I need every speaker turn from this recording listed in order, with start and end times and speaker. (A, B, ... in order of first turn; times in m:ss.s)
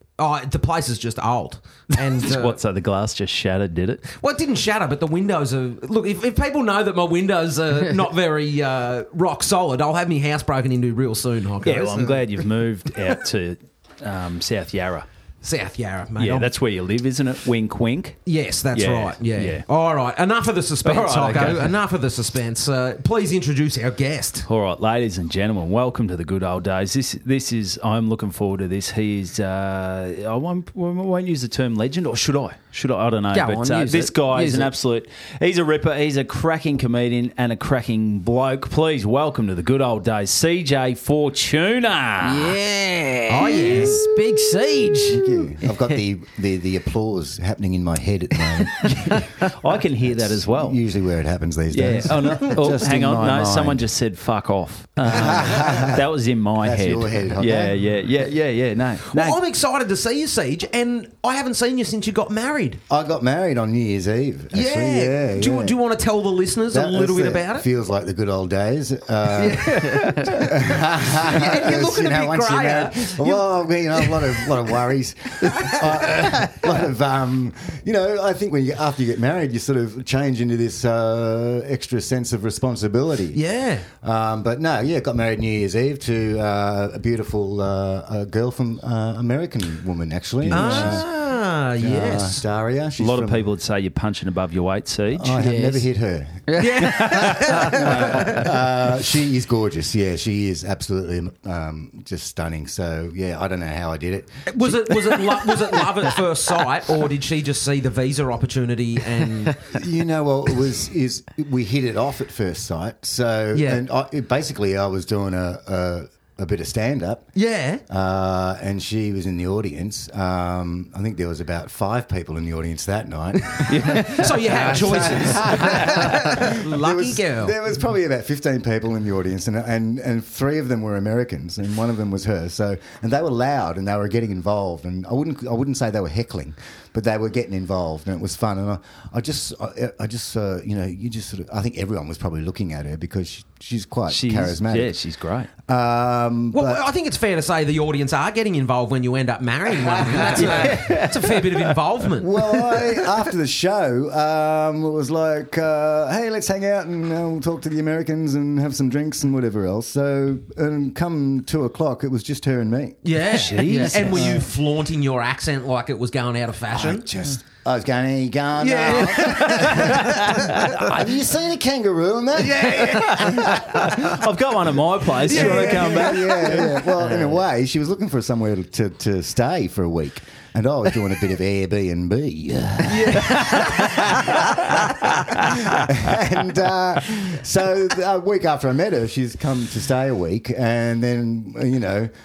0:00.2-0:02.6 A
0:02.0-0:04.0 B
0:04.1-0:12.3 A
0:11.6-0:15.0 B
0:15.4-0:16.5 A
0:16.2-0:18.2 B
0:18.2-0:24.5 A
0:18.7-0:19.6 B
0:20.8-0:21.8 B
0:24.4-0:42.6 B
0:33.3-0:34.7 C
0:42.2-0:45.5 C
0:43.3-0:44.0 A
0:45.1-0:49.4 D
0:49.1-0:49.4 C
0:49.2-0:50.8 B
0:50.0-0:53.9 D
0:51.7-0:59.4 B
0:55.0-0:56.1 D
0:56.6-0:57.8 D
0:59.1-1:02.8 A
1:02.9-1:05.8 D
1:04.5-1:07.6 A
1:06.7-1:23.4 D
1:09.3-1:14.6 A
1:09.6-1:10.5 B
1:15.5-1:16.6 A
1:23.3-1:23.9 A
1:24.0-1:31.1 D
1:30.4-1:31.0 B
1:30.5-1:32.4 A
1:31.8-1:33.5 D
1:33.0-1:35.5 B
1:35.1-1:46.0 D
1:35.3-1:35.8 C
1:36.5-1:37.8 C
1:36.6-1:38.5 A
1:44.5-1:49.8 A
1:49.6-1:57.3 D
1:53.5-1:53.8 A
1:57.3-1:57.8 A
1:57.9-2:25.0 D
2:03.6-2:07.6 A
2:03.7-2:05.7 B
2:24.1-2:25.5 B
2:25.6-2:26.8 D
2:26.5-2:33.0 A
2:30.2-2:30.7 D
2:30.2-2:31.8 B
2:32.1-2:43.0 D
2:43.0-2:47.1 A
2:43.3-2:44.3 B
2:44.0-2:44.5 D
2:46.7-2:54.2 D
2:48.6-2:50.7 A
2:49.7-2:50.7 B
2:52.4-2:53.5 A
2:52.8-2:56.8 B
2:55.2-2:57.0 A
2:55.2-3:12.1 D
3:02.8-3:04.0 A
3:03.1-3:06.1 B